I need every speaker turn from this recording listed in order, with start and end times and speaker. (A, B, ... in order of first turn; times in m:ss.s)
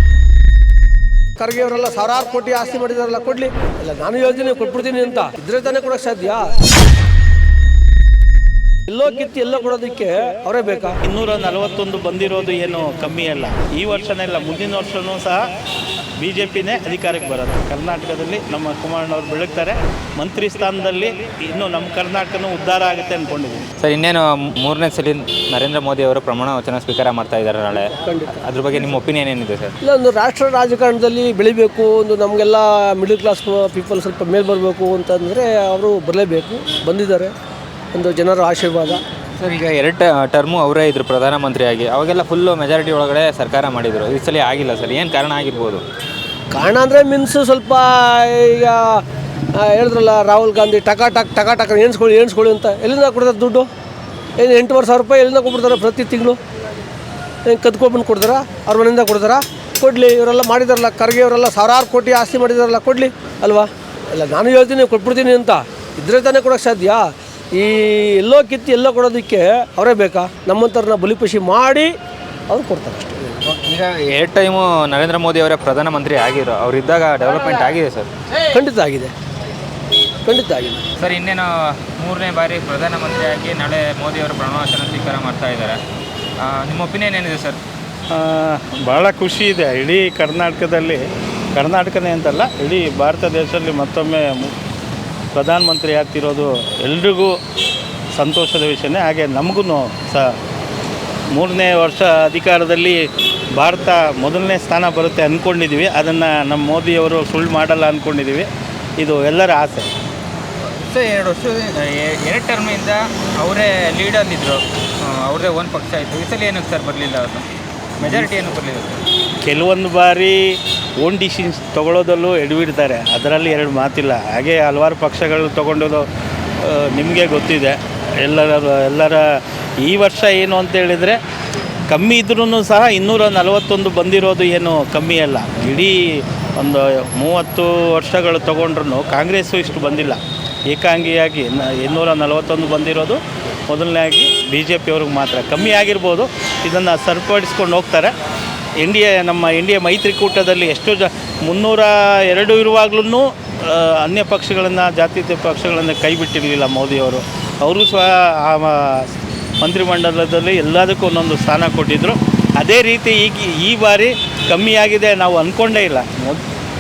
0:01.4-0:06.5 A
0:08.9-0:11.0 A
0:11.0-0:15.4 B
0:16.2-0:23.7 B
0:23.8-0:29.7 C
0:27.8-0:28.4 A
0:29.8-0:37.3 A
0:37.9-0:39.0 A
0:39.4-0:45.8 C
0:46.5-0:49.0 A
0:49.5-0:53.7 A
0:54.4-0:56.4 A
0:57.5-1:11.9 A
1:12.5-1:13.3 A
1:13.4-1:18.1 C
1:18.4-1:19.1 A
1:20.3-1:20.8 A
1:21.0-1:25.8 C
1:26.4-1:27.6 C
1:28.1-1:31.0 B
1:31.6-1:34.5 B
1:35.3-1:37.4 B
1:38.2-1:40.4 B
1:41.3-1:43.0 B
1:43.6-1:49.9 B
1:50.6-1:57.5 C
1:58.0-1:59.0 C
1:58.0-1:58.3 B
1:59.4-2:06.1 B
2:06.6-2:11.2 B
2:11.9-2:28.1 B
2:28.8-2:39.1 B
2:39.6-2:46.4 B